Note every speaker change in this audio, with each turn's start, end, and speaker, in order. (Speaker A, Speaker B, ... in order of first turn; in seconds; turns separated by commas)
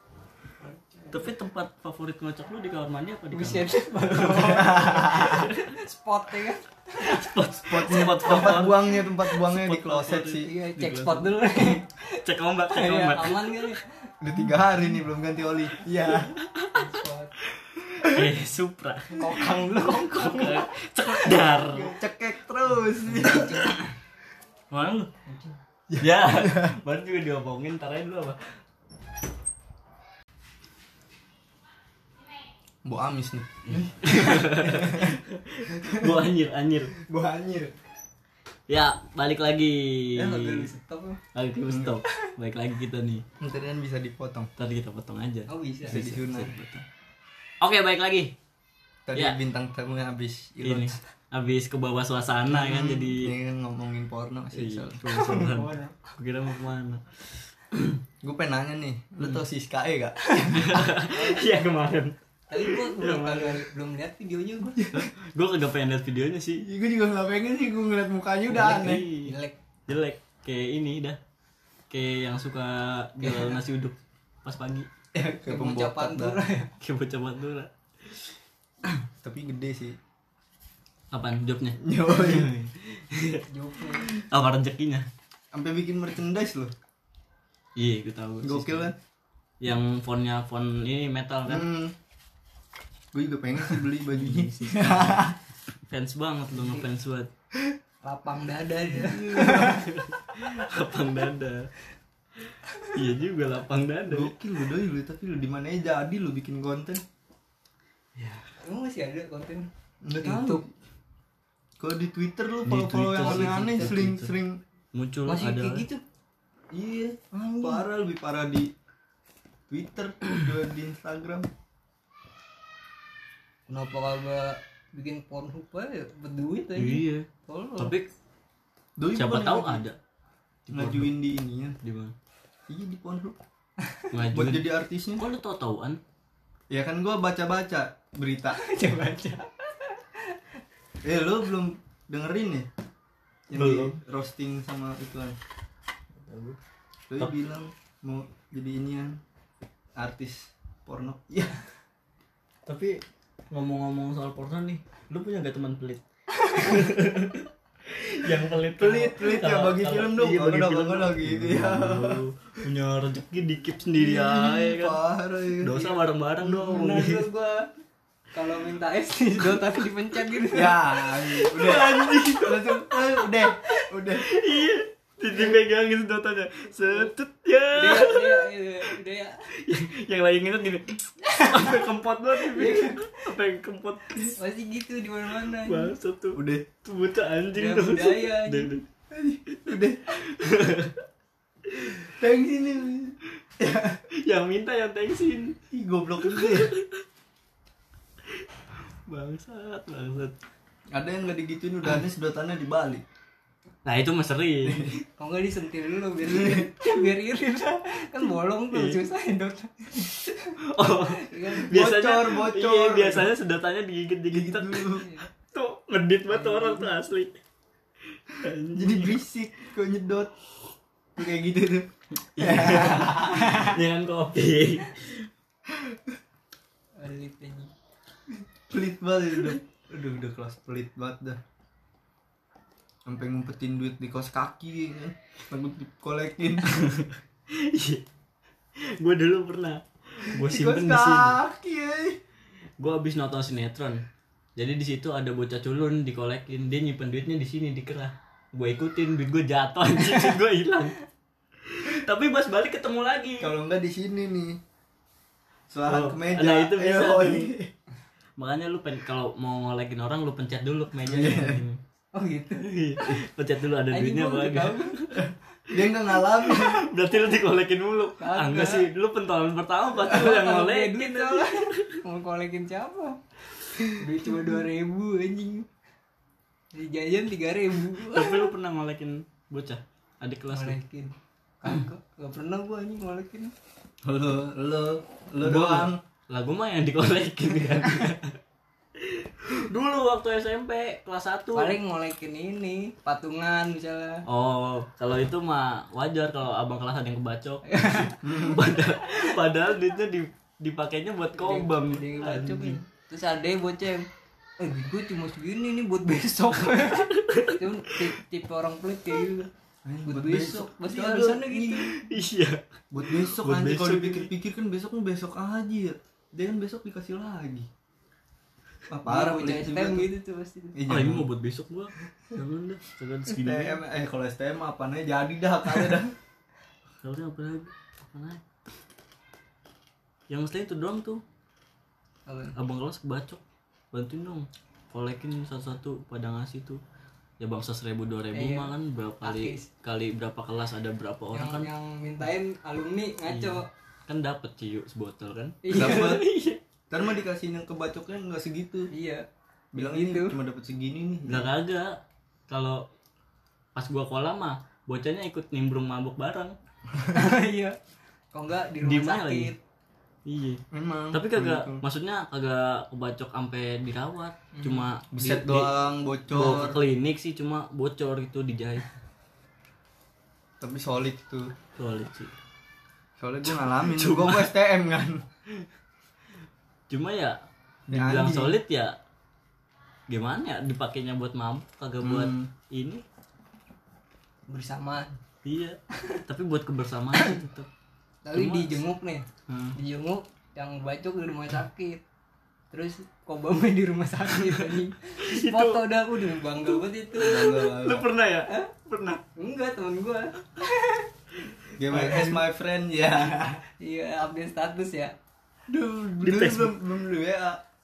Speaker A: 0.7-1.2, Speaker B: 1.1-5.7, Speaker A: 3.3-7.3, Speaker C: 4.3-5.5, Speaker B: 7.0-13.8, Speaker C: 7.7-10.5, Speaker A: 10.4-14.1, Speaker C: 14.2-16.3, Speaker B: 16.1-16.9, Speaker A: 16.7-17.3, Speaker B: 17.8-22.0, Speaker A: 19.1-20.7, Speaker C: 21.4-23.8, Speaker A: 23.1-23.8, Speaker B: 24.7-25.1, Speaker A: 25.3-25.6, Speaker C: 25.9-26.8, Speaker B: 26.0-28.4, Speaker C: 32.8-35.2, Speaker B: 33.7-37.0, Speaker C: 35.7-36.2, Speaker C: 37.0-37.7, Speaker B: 38.7-40.7, Speaker A: 40.1-41.2, Speaker B: 41.4-43.2, Speaker C: 41.7-42.0, Speaker C: 43.4-44.5, Speaker B: 44.6-46.9, Speaker A: 45.5-46.0, Speaker C: 45.9-46.5, Speaker B: 47.6-48.4, Speaker C: 49.1-51.0, Speaker B: 50.6-53.3, Speaker C: 52.5-55.0, Speaker B: 54.5-58.0, Speaker A: 55.1-56.1, Speaker C: 58.2-61.0, Speaker B: 60.5-63.6, Speaker A: 61.1-61.4, Speaker A: 62.5-64.8, Speaker C: 64.8-65.1, Speaker B: 64.9-66.7, Speaker C: 66.6-69.1, Speaker B: 68.5-69.3, Speaker A: 68.6-69.6, Speaker B: 69.9-71.2, Speaker B: 71.9-74.9, Speaker A: 73.2-73.6, Speaker C: 75.1-76.4, Speaker A: 75.5-76.7, Speaker B: 76.8-78.3, Speaker C: 79.2-80.0, Speaker B: 81.1-83.5, Speaker C: 81.8-82.5, Speaker A: 83.5-84.1, Speaker B: 84.1-85.1, Speaker C: 85.5-86.7, Speaker B: 87.8-88.9, Speaker C: 88.4-89.0, Speaker B: 89.6-91.7, Speaker C: 91.5-92.0, Speaker C: 93.1-95.4, Speaker B: 94.1-95.2, Speaker B: 95.9-97.3, Speaker A: 96.5-96.8, Speaker A: 98.0-99.9, Speaker C: 98.9-99.9, Speaker B: 99.5-101.7, Speaker B: 102.9-104.3, Speaker C: 104.1-107.0, Speaker B: 108.2-108.5, Speaker A: 108.6-110.6, Speaker C: 110.0-110.7, Speaker C: 111.8-114.6, Speaker B: 112.7-114.3, Speaker A: 113.2-113.9, Speaker B: 114.9-115.9, Speaker A: 115.3-116.0, Speaker C: 116.7-118.7, Speaker A: 117.3-117.8, Speaker C: 119.7-121.5, Speaker A: 123.7-128.0, Speaker B: 126.8-128.1, Speaker C: 129.0-129.9, Speaker B: 129.1-130.0, Speaker B: 130.7-131.1, Speaker C: 130.7-131.8, Speaker B: 131.8-132.1, Speaker C: 132.7-133.4, Speaker A: 133.8-134.1, Speaker B: 134.1-136.0, Speaker C: 134.3-135.2, Speaker C: 136.7-138.6, Speaker A: 138.5-140.4, Speaker C: 141.0-142.7, Speaker C: 143.5-145.4, Speaker B: 143.5-144.0, Speaker B: 146.2-146.6, Speaker C: 147.1-149.2, Speaker C: 150.0-151.6, Speaker B: 152.7-165.0, Speaker A: 156.4-156.8, Speaker C: 158.8-162.2, Speaker C: 164.0-167.0, Speaker B: 165.6-167.3, Speaker A: 166.6-167.7, Speaker A: 168.3-170.8, Speaker C: 170.5-174.2, Speaker B: 171.2-173.0, Speaker B: 174.2-178.5, Speaker A: 177.7-179.5, Speaker B: 179.5-184.4, Speaker A: 181.3-181.8, Speaker A: 182.5-183.0, Speaker A: 184.3-185.9, Speaker B: 185.5-188.8, Speaker C: 186.3-186.7, Speaker A: 187.5-188.7, Speaker C: 189.1-190.1, Speaker B: 189.5-191.0, Speaker B: 191.7-192.1, Speaker C: 192.1-194.0, Speaker B: 194.1-195.6, Speaker C: 195.7-196.7, Speaker B: 196.2-197.0, Speaker B: 199.1-200.3, Speaker C: 200.9-203.0, Speaker B: 203.8-204.9, Speaker C: 204.6-205.0, Speaker A: 205.2-210.6, Speaker C: 206.2-206.7, Speaker B: 208.7-209.0, Speaker B: 210.7-217.3, Speaker A: 211.1-211.7, Speaker C: 211.7-213.3, Speaker C: 214.3-215.1, Speaker A: 215.0-215.3, Speaker A: 216.3-216.9, Speaker B: 218.3-219.2, Speaker C: 218.8-220.3, Speaker C: 221.2-223.8, Speaker B: 222.3-225.3, Speaker C: 225.7-226.2, Speaker A: 227.0-227.7, Speaker C: 228.7-231.4, Speaker C: 233.1-236.8, Speaker B: 236.7-238.0, Speaker B: 239.0-241.4, Speaker C: 240.3-242.2, Speaker B: 242.8-244.0, Speaker B: 244.6-251.0, Speaker B: 251.7-253.5, Speaker C: 253.4-254.6, Speaker C: 255.7-257.7, Speaker B: 255.9-257.5, Speaker B: 258.4-261.8, Speaker C: 261.1-261.6, Speaker A: 262.1-263.1, Speaker B: 262.6-265.9, Speaker A: 263.9-265.0, Speaker C: 265.7-266.9, Speaker B: 266.4-271.9, Speaker A: 268.2-268.9, Speaker A: 270.0-273.2, Speaker A: 273.8-275.7, Speaker A: 276.7-278.5, Speaker B: 278.0-280.8, Speaker A: 280.5-283.5, Speaker C: 284.1-286.0, Speaker B: 285.4-288.4, Speaker B: 289.0-291.8, Speaker A: 291.6-294.2, Speaker B: 294.3-302.8, Speaker A: 297.7-298.2, Speaker C: 298.2-298.7, Speaker A: 301.4-304.1, Speaker A: 304.6-309.5, Speaker B: 306.7-307.6, Speaker C: 309.9-311.9, Speaker A: 310.1-311.9, Speaker B: 311.9-314.3, Speaker C: 312.9-317.7, Speaker C: 318.9-320.1, Speaker A: 319.1-320.8, Speaker C: 320.8-321.3, Speaker B: 320.9-323.8, Speaker C: 323.3-326.1, Speaker B: 327.0-328.4, Speaker B: 330.3-331.2, Speaker A: 332.3-332.6, Speaker B: 332.6-333.4, Speaker B: 333.9-336.8, Speaker B: 337.4-341.7, Speaker A: 338.3-339.7, Speaker A: 341.3-343.7, Speaker B: 343.3-346.4, Speaker A: 345.6-346.6, Speaker C: 345.7-346.3, Speaker C: 346.9-348.9, Speaker A: 348.9-349.2, Speaker C: 349.7-351.5, Speaker A: 349.8-350.4, Speaker B: 351.3-352.0, Speaker B: 352.5-352.9, Speaker B: 353.8-356.6, Speaker A: 357.1-357.8, Speaker A: 358.3-359.6, Speaker B: 358.8-359.5, Speaker B: 360.3-365.7, Speaker C: 360.7-361.9, Speaker A: 364.5-364.9, Speaker C: 365.1-366.8, Speaker B: 366.3-368.9, Speaker C: 370.6-371.5, Speaker B: 371.8-372.3, Speaker C: 373.2-375.2, Speaker B: 373.5-374.5, Speaker B: 376.9-377.4, Speaker C: 377.9-378.6, Speaker B: 377.9-379.0, Speaker B: 380.1-383.0, Speaker C: 382.0-382.5, Speaker A: 384.5-385.2, Speaker B: 385.4-387.7, Speaker A: 388.3-392.0, Speaker B: 388.3-388.9, Speaker B: 389.5-389.8, Speaker A: 392.7-397.6, Speaker B: 395.3-395.9, Speaker C: 397.2-398.1, Speaker B: 397.3-399.2, Speaker A: 399.4-401.1, Speaker C: 401.8-403.6, Speaker B: 401.9-402.4, Speaker A: 403.8-405.1, Speaker C: 405.7-407.6, Speaker B: 406.2-406.7